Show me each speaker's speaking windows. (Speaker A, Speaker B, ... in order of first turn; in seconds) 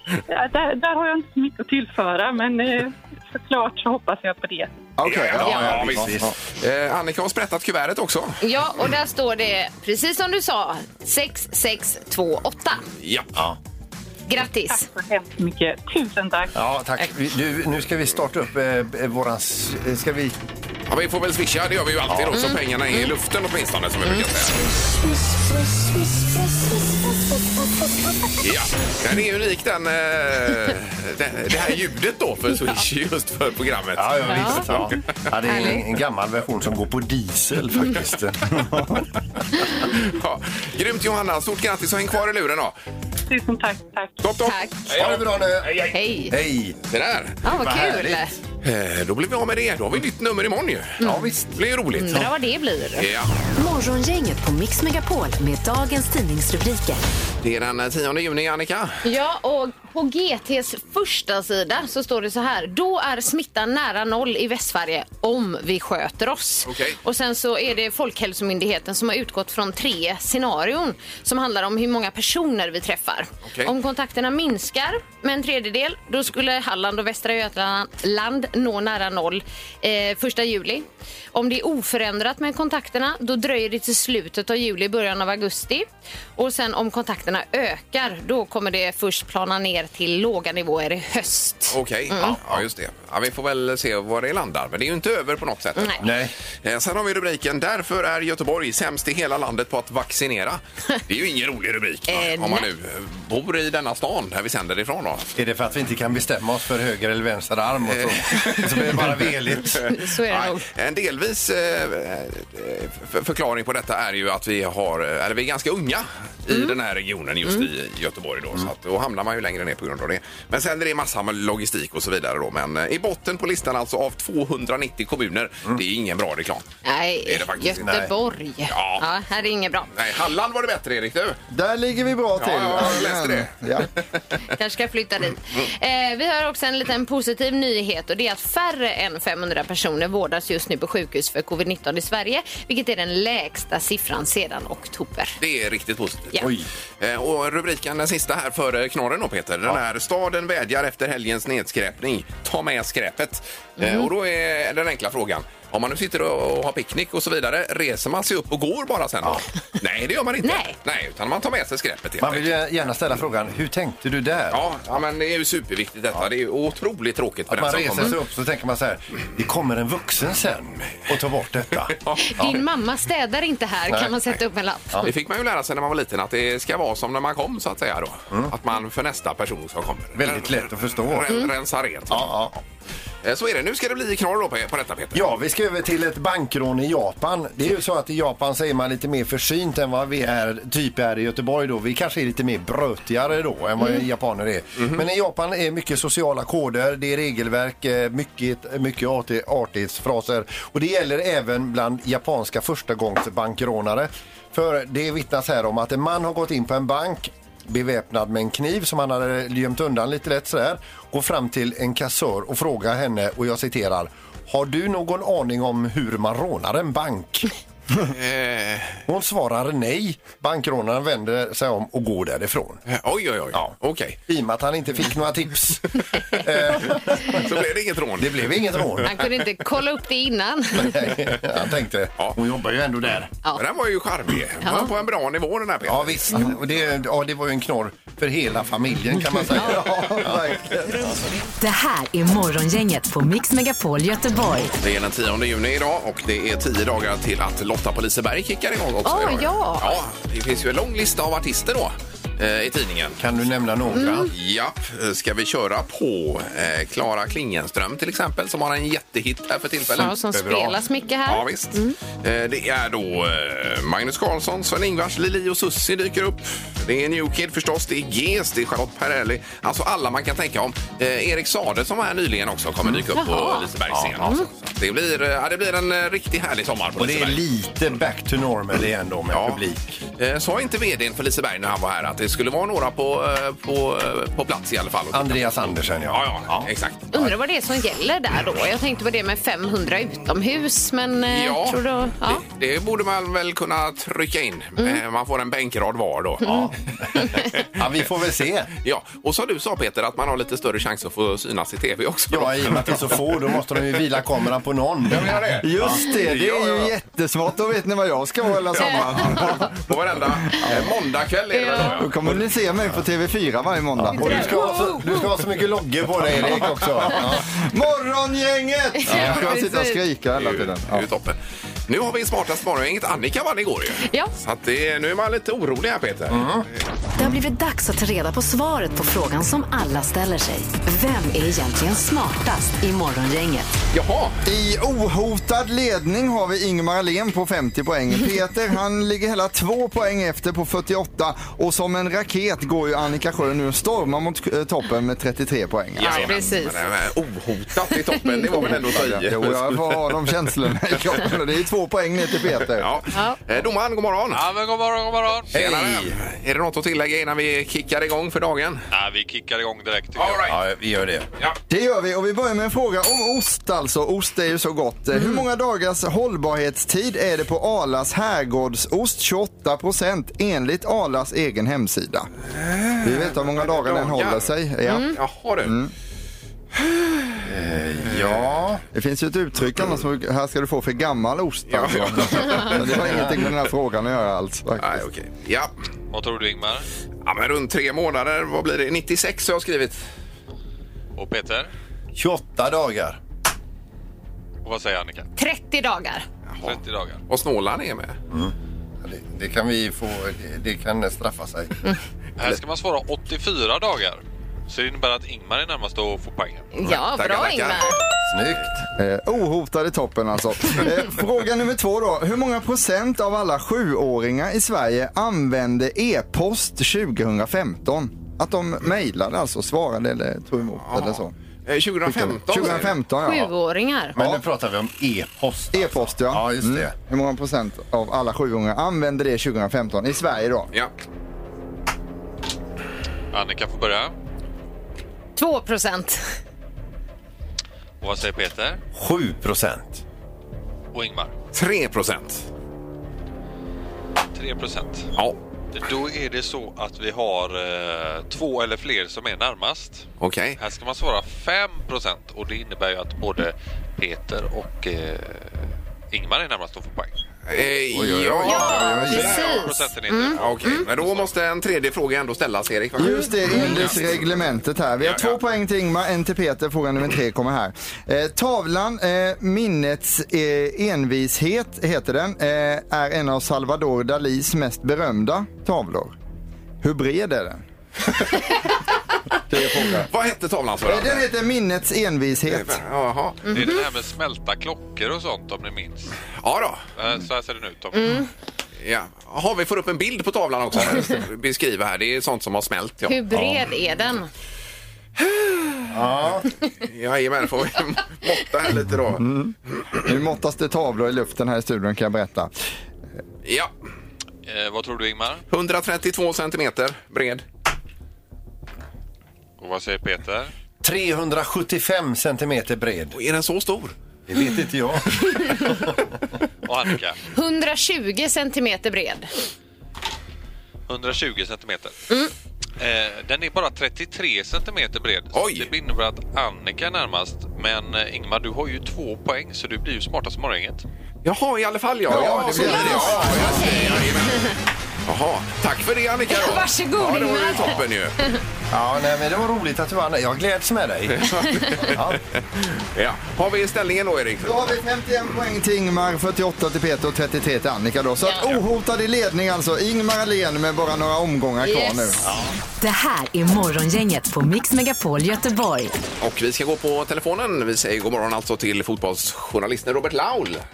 Speaker A: 0.3-4.7, 14.7-16.5, 43.3-44.2
Speaker B: 5.0-6.3, 131.5-133.9, 239.5-241.1, 305.6-309.8, 310.6-310.9, 311.9-314.6, 317.1-321.1, 334.4-346.4, 348.6-353.0, 361.7-372.3, 373.0-375.9, 378.9-385.1, 409.0-421.3, 422.1-423.5, 424.2-424.4, 425.7-430.7, 458.7-459.3, 463.0-476.1, 476.8-477.6, 479.5-480.1, 480.9-482.8, 499.2-502.5, 532.1-533.9, 544.4-552.3
Speaker C: 5.0-8.4, 13.0-13.3, 20.9-24.6, 28.4-35.0, 39.9-42.8, 44.2-45.9, 46.9-47.4, 48.6-51.0, 51.5-52.3, 53.0-53.3, 57.4-59.0, 66.7-67.0, 73.5-73.7, 91.7-96.0, 96.6-105.3, 107.9-126.7, 127.2-128.0, 128.7-129.1, 129.9-131.4, 132.4-133.8, 145.4-146.4, 147.0-162.5, 164.5-168.2, 171.9-172.3, 175.0-182.5, 183.2-185.2, 218.0-219.1, 222.9-224.2, 226.8-229.1, 233.6-236.6, 244.8-253.2, 254.3-260.1, 261.3-277.4, 279.3-279.6, 280.2-287.1, 291.3-296.5, 298.8-303.4, 305.1-306.9, 308.9-312.1, 319.1-319.5, 320.4-321.4, 321.9-326.5, 333.9-334.4, 346.0-350.1, 352.7-354.4, 355.5-358.8, 360.2-360.6, 372.6-375.7, 376.8-377.4, 378.1-378.7, 381.7-383.3, 384.8-385.7, 387.2-390.0, 397.3-398.2, 406.9-407.9, 420.9-423.0, 441.5-442.4, 450.2-450.6, 457.5-458.7, 460.3-464.0, 465.0-465.4, 480.1-481.2, 482.5-483.5, 486.4-486.8, 488.8-493.2, 496.8-499.3, 503.4-503.7, 505.5-507.4, 513.1-514.0, 525.3-525.7, 531.2-534.5, 535.1-538.2, 541.1-542.0, 542.6-544.7, 556.2-560.6
Speaker D: 5.3-6.3, 16.6-20.4, 22.1-22.5, 34.0-39.0, 44.9-46.8, 47.5-48.2, 51.0-51.6, 96.0-96.3, 105.4-109.9, 127.8-128.1, 146.4-146.7, 162.2-164.6, 167.5-172.6, 173.9-174.1, 180.2-181.3, 182.1-182.5, 185.1-217.6, 219.1-222.8, 224.3-227.5, 228.2-229.2, 230.8-233.3, 235.9-240.6, 253.2-254.3, 260.3-260.8, 273.9-274.5, 277.0-280.0, 285.1-286.7, 296.4-298.7, 302.3-306.0, 314.0-317.5, 326.3-326.7, 355.5-356.2, 360.5-361.3, 377.4-378.8, 392.1-393.2, 398.3-401.8, 408.3-408.8, 424.2-426.9, 438.9-440.0, 457.9-459.3, 495.9-496.5, 510.8-513.2, 514.3-515.9, 538.7-542.2, 552.2-552.5
Speaker E: 5.4-5.7, 8.4-12.8, 14.3-14.9, 22.4-23.1, 34.3-34.7, 35.5-35.8, 44.5-44.8, 45.9-46.4, 47.4-48.3, 51.0-51.3, 52.0-53.1, 59.0-92.4, 102.1-102.7, 109.8-110.7, 126.8-129.9, 134.5-145.4, 153.8-154.1, 160.4-160.8, 172.2-175.0, 229.0-231.1, 234.6-234.9, 249.1-250.0, 253.9-254.3, 259.9-262.0, 273.1-273.7, 287.1-292.4, 296.4-296.7, 308.8-309.2, 311.5-312.0, 314.2-315.3, 319.0-320.0, 324.1-324.3, 346.0-346.8, 347.9-348.7, 353.1-353.4, 374.9-375.1, 395.4-396.3, 406.7-408.0, 423.2-424.2, 435.4-436.3, 458.4-460.9, 483.5-483.8, 487.9-488.3, 493.1-494.3, 515.4-515.7, 517.4-519.3, 532.1-534.6, 536.3-538.4, 551.6-552.2
Speaker F: 53.6-57.0, 241.6-244.7, 327.2-333.8, 552.8-556.0
Speaker G: 354.3-355.5, 358.9-360.4, 386.1-386.9, 391.1-391.7, 394.6-395.3, 396.6-397.2, 402.4-406.7, 433.3-434.1, 438.0-438.8, 440.9-441.3, 444.4-445.1, 445.7-450.1, 450.6-457.1, 458.9-461.3, 483.5-486.1, 487.0-488.2, 504.5-505.4, 509.6-510.5, 516.6-517.2, 520.9-521.9, 522.8-530.9